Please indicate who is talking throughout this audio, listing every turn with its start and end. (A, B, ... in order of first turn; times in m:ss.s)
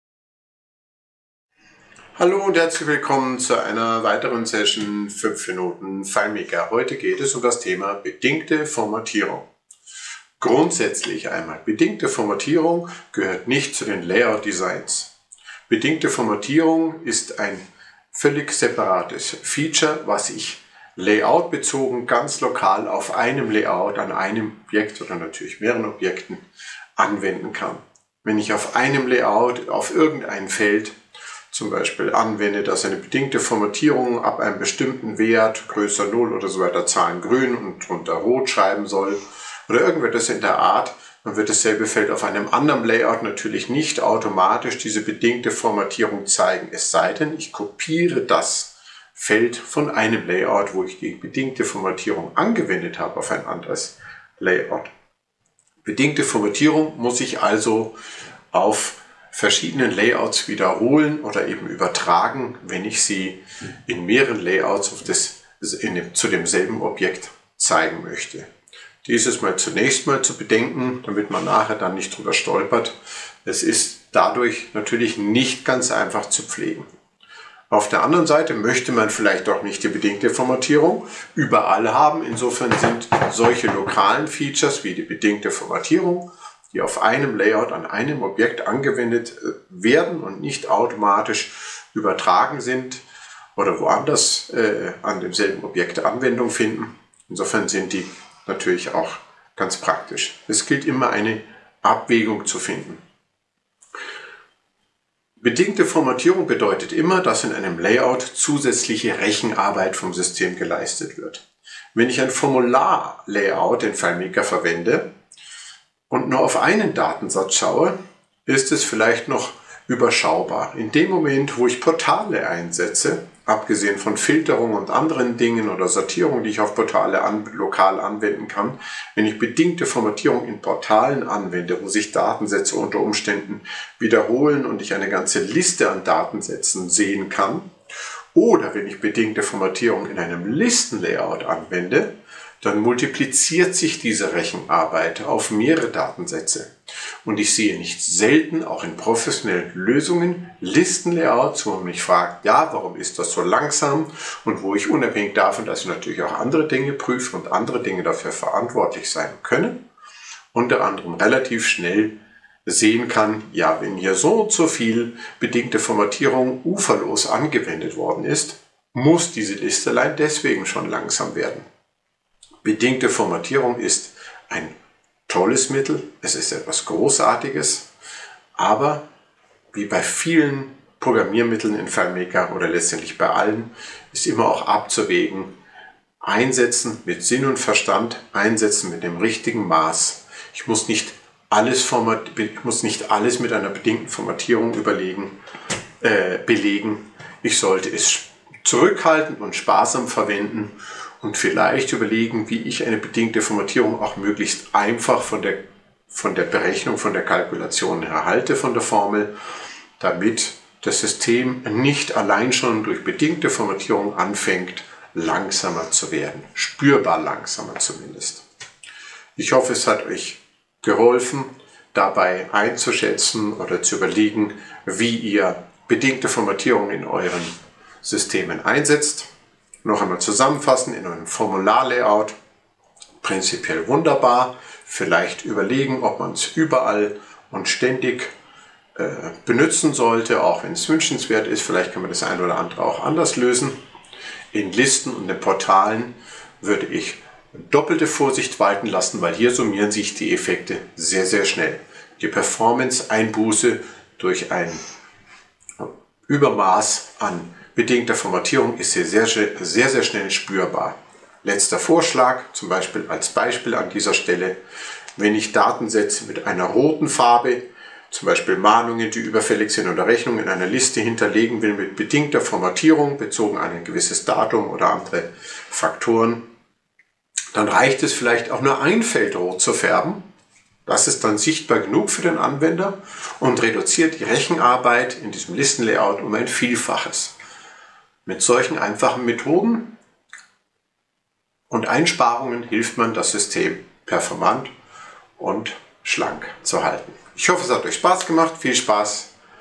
0:02.2-0:09.5 A
0:10.4-0:15.1 A
0:15.7-0:26.4 A
0:27.0-0:31.0 A
0:31.5-0:54.9 A
0:55.8-0:57.9 A
0:58.5-1:08.5 A
1:09.0-1:16.9 A
1:17.7-1:33.0 A
1:33.6-1:43.0 A
1:45.4-1:51.4 A
1:51.9-1:55.1 A
1:56.1-1:57.9 A
1:58.4-2:17.7 A
2:18.3-2:26.7 A
2:27.2-2:39.8 A
2:40.5-2:42.1 A
2:42.6-2:51.6 A
2:52.6-2:54.7 A
2:55.3-2:57.8 A
2:58.6-2:59.0 A
2:59.7-3:05.5 A
3:06.2-3:15.3 A
3:16.0-3:25.6 A
3:26.1-3:29.3 A
3:30.0-3:38.4 A
3:39.4-3:47.5 A
3:48.0-3:49.3 A
3:49.8-3:52.3 A
3:53.2-3:58.3 A
3:59.0-4:03.7 A
4:04.5-4:14.8 A
4:15.8-4:24.6 A
4:25.2-4:36.4 A
4:37.5-4:40.2 A
4:40.8-4:47.3 A
4:48.2-4:49.9 A
4:51.7-4:54.7 A
4:55.4-4:59.3 A